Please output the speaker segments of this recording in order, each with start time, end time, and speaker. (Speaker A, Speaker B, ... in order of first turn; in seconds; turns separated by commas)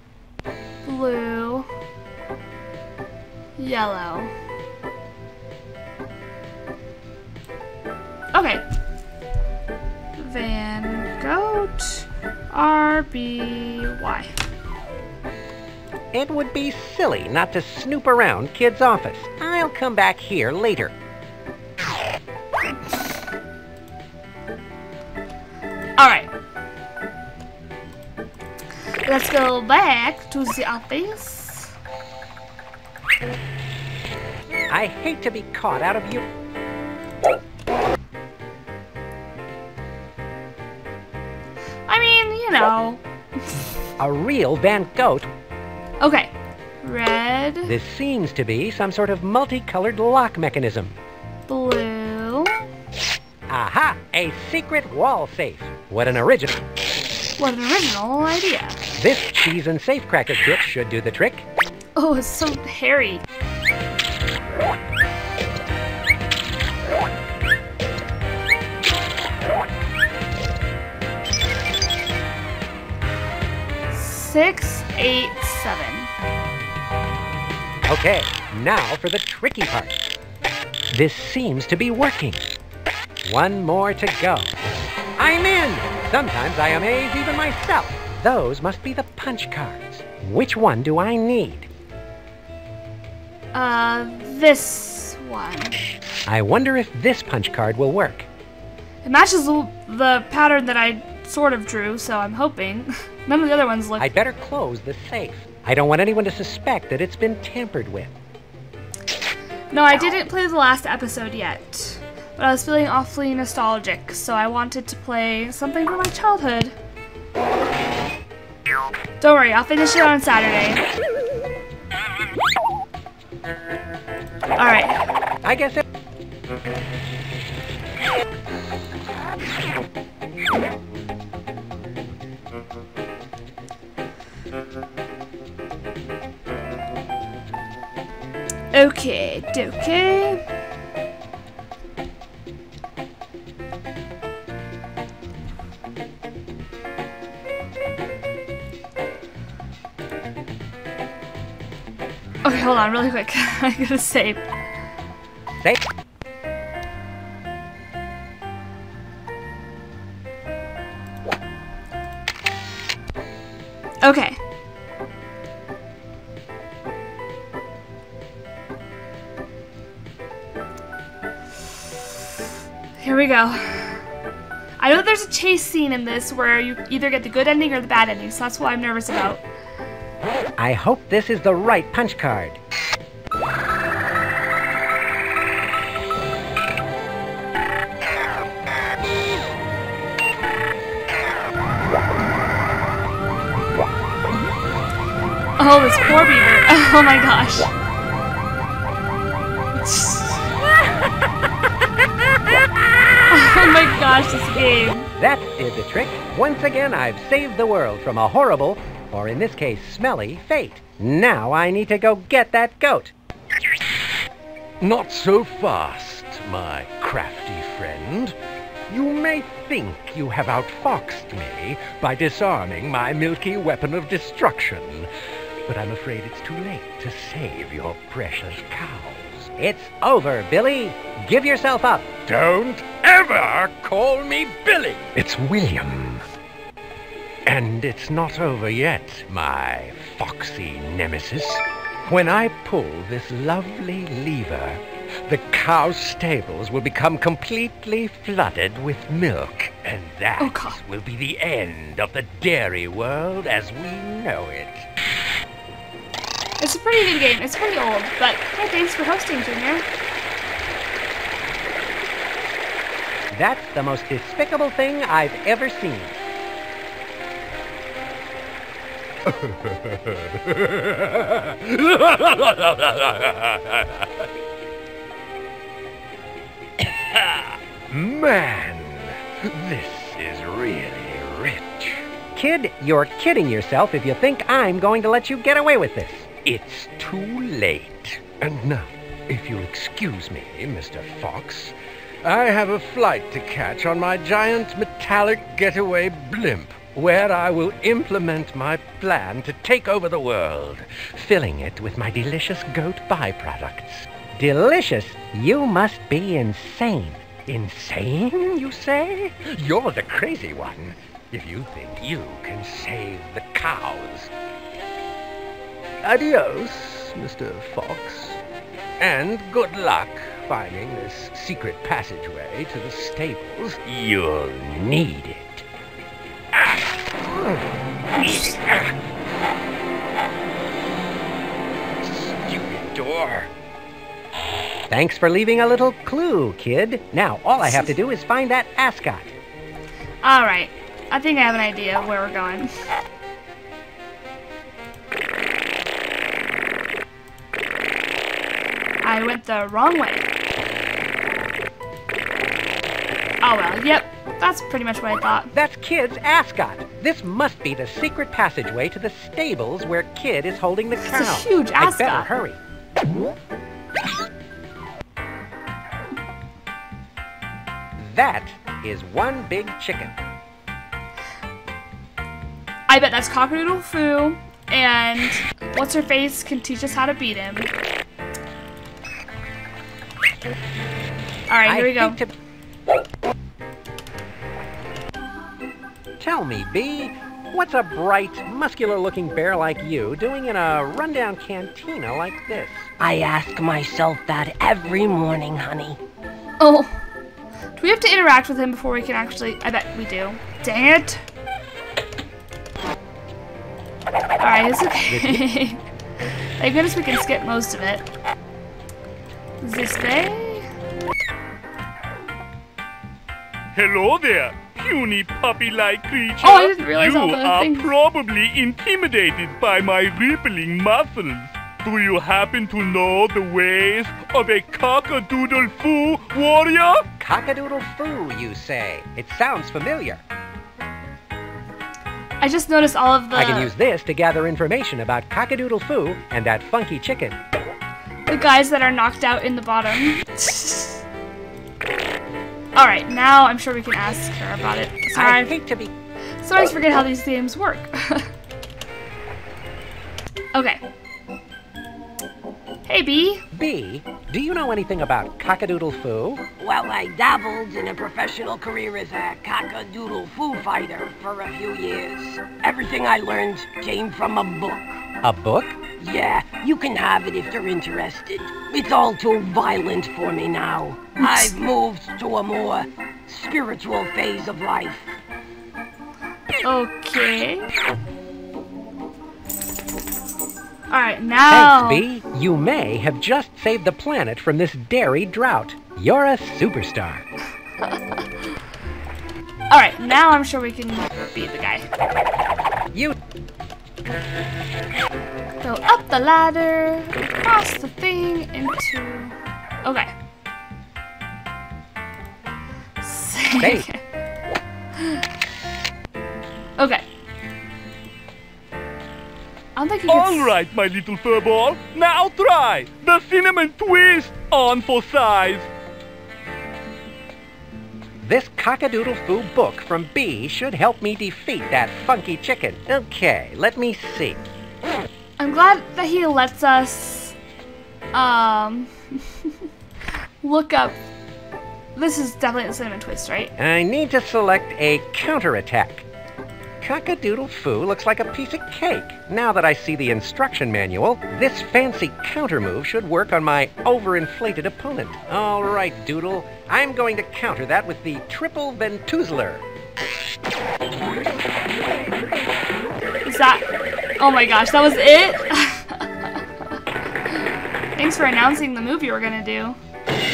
Speaker A: 0.8-1.7, Speaker A: 3.6-4.3, Speaker A: 8.3-8.6, Speaker A: 10.2-14.3, Speaker B: 16.1-20.9, Speaker A: 26.0-26.3, Speaker A: 29.1-31.7, Speaker B: 34.7-36.2, Speaker A: 41.9-43.0, Speaker B: 44.0-45.3, Speaker A: 46.0-47.8, Speaker B: 47.6-50.9, Speaker A: 51.5-52.6, Speaker B: 53.5-56.6, Speaker A: 57.4-58.8, Speaker B: 59.0-61.5, Speaker A: 62.0-63.2, Speaker A: 73.9-76.1, Speaker B: 77.8-80.1, Speaker B: 80.9-82.5, Speaker B: 83.2-84.5, Speaker B: 85.2-91.7, Speaker A: 93.5-95.8, Speaker B: 96.3-98.3, Speaker A: 99.0-104.1, Speaker B: 104.0-108.1, Speaker A: 109.7-116.8, Speaker A: 119.2-120.8, Speaker A: 124.6-125.0, Speaker B: 125.4-125.8, Speaker A: 138.7-140.4, Speaker A: 152.4-154.4, Speaker B: 155.5-155.8, Speaker A: 164.0-164.4, Speaker A: 173.0-174.0, Speaker A: 174.8-179.4, Speaker B: 180.6-182.6, Speaker A: 195.6-197.7, Speaker A: 199.8-200.5, Speaker A: 203.3-205.1, Speaker B: 205.2-213.1, Speaker C: 214.8-218.3, Speaker C: 218.9-225.1, Speaker C: 225.7-229.5, Speaker B: 229.5-232.2, Speaker C: 232.2-236.2, Speaker C: 237.5-254.8, Speaker A: 250.4-250.8, Speaker A: 256.6-259.9, Speaker B: 263.3-266.2, Speaker C: 269.3-274.2, Speaker C: 277.1-282.0, Speaker B: 282.3-286.4, Speaker C: 286.4-304.1, Speaker B: 302.0-302.5, Speaker B: 303.7-309.5, Speaker C: 309.4-314.3, Speaker C: 316.0-318.4, Speaker C: 319.0-325.6, Speaker C: 326.5-327.6, Speaker C: 328.2-328.9, Speaker C: 332.0-333.5, Speaker B: 334.9-339.3, Speaker A: 340.2-342.7, Speaker A: 349.0-350.3, Speaker A: 353.4-355.5, Speaker B: 355.5-362.6, Speaker A: 361.0-362.3, Speaker B: 368.0-370.2, Speaker A: 372.9-377.7, Speaker A: 381.5-382.2, Speaker B: 381.6-382.3, Speaker B: 386.2-392.9, Speaker D: 393.0-396.0, Speaker A: 396.6-397.0, Speaker A: 397.8-401.2, Speaker A: 404.4-405.8, Speaker B: 405.1-405.4, Speaker A: 406.6-408.1, Speaker A: 409.6-410.7, Speaker E: 413.8-427.1, Speaker A: 416.4-417.9, Speaker B: 427.2-430.2, Speaker A: 432.4-433.7, Speaker B: 433.3-437.4, Speaker A: 438.3-441.0, Speaker A: 442.8-445.5, Speaker B: 445.1-445.9, Speaker A: 446.4-448.3, Speaker A: 450.5-450.8, Speaker A: 452.9-453.4, Speaker B: 453.5-456.4, Speaker D: 456.6-464.9, Speaker B: 465.2-465.8, Speaker D: 466.0-475.1, Speaker A: 476.6-477.7, Speaker A: 480.9-482.1, Speaker B: 481.5-487.3, Speaker A: 489.7-491.9, Speaker A: 495.6-500.1, Speaker A: 503.0-504.0, Speaker B: 503.6-503.9, Speaker A: 506.8-507.0, Speaker A: 509.8-510.5, Speaker E: 510.1-515.7, Speaker B: 518.2-524.4, Speaker A: 525.4-527.4, Speaker A: 528.1-529.2, Speaker A: 530.4-531.0, Speaker A: 532.0-533.5, Speaker B: 533.6-536.0, Speaker B: 536.8-549.6, Speaker A: 553.3-553.6, Speaker A: 554.2-556.1, Speaker A: 557.4-559.8